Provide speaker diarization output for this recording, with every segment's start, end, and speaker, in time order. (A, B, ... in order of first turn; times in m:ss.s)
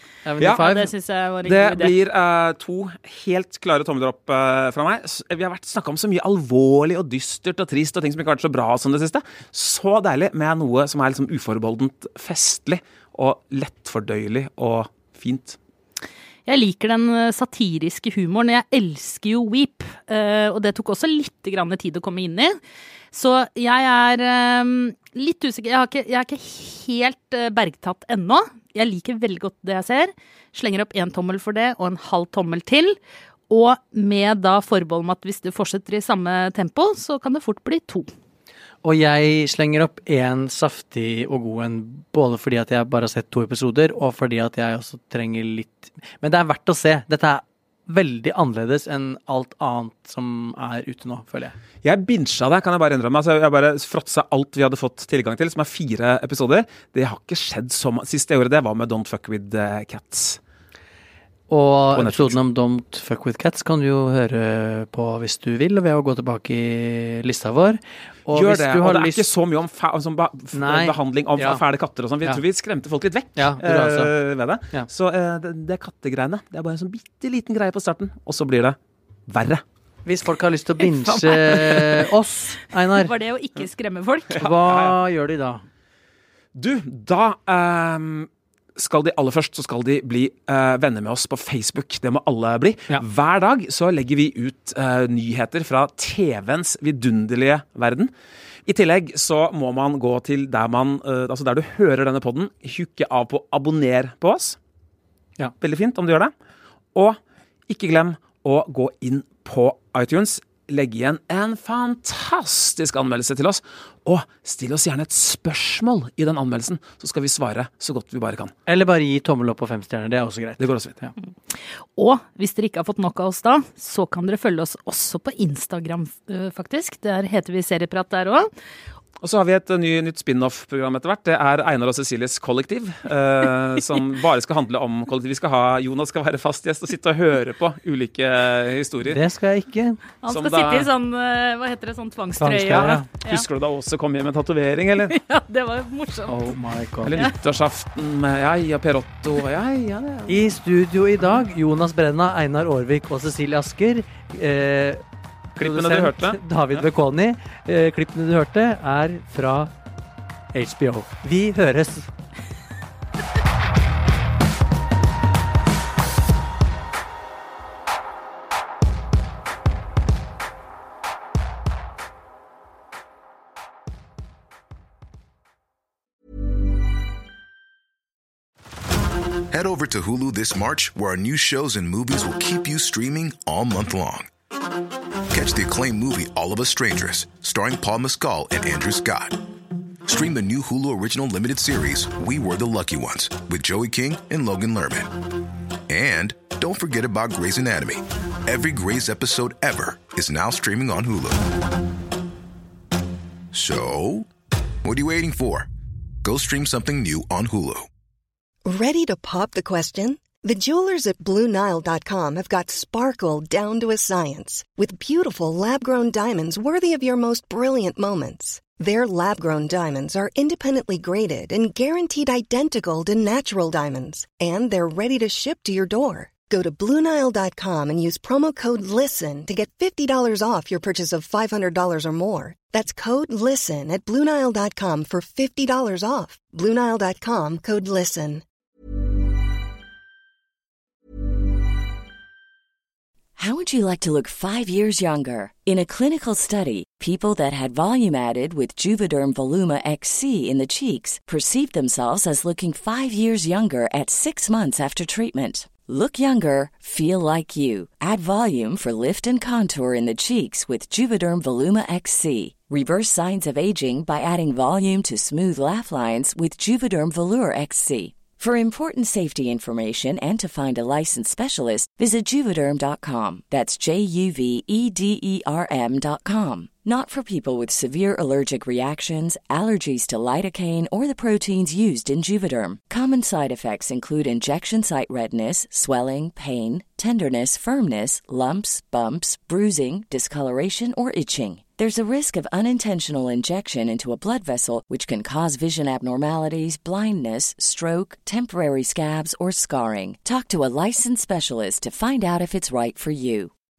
0:00.2-0:00.9 A
0:00.4-0:00.7 B
0:00.5-0:02.0 C
0:01.4-0:15.6 B
0:16.4-0:22.6 C
0:23.1-0:33.0 C
0:33.5-0:38.1 C
0:38.8-0:51.6 A
0:51.8-1:00.4 B
1:01.5-1:09.2 A
1:01.9-1:02.4 B
1:08.3-1:18.8 B
1:10.5-1:11.6 A
1:13.4-1:14.1 A
1:19.3-1:19.6 B
1:20.0-1:23.1 A
1:20.8-1:22.1 C
1:22.9-1:24.5 C
1:24.4-1:25.6 A
1:24.4-1:25.0 B
1:26.5-1:38.1 B
1:38.6-1:44.6 B
1:45.6-1:46.3 B
1:47.7-1:58.5 B
1:58.6-2:01.1 A
2:00.6-2:01.0 B
2:01.5-2:08.5 C
2:09.2-2:19.2 B
2:19.0-2:20.0 A
2:20.2-2:23.4 C
2:20.3-2:20.9 B
2:22.4-2:23.1 A
2:22.7-2:25.1 B
2:25.1-2:26.5 C
2:26.3-2:27.3 A
2:27.0-2:30.4 B
2:30.3-2:35.0 A
2:35.6-2:39.7 A
2:35.6-2:36.8 B
2:40.5-2:42.1 A
2:59.5-3:04.3 D
3:05.3-3:09.4 D
3:10.0-3:15.3 D
3:15.9-3:21.6 D
3:23.5-3:24.3 D
3:24.8-3:25.7 D
3:26.2-3:27.9 D
3:28.6-3:58.4 E
4:03.4-5:03.5 F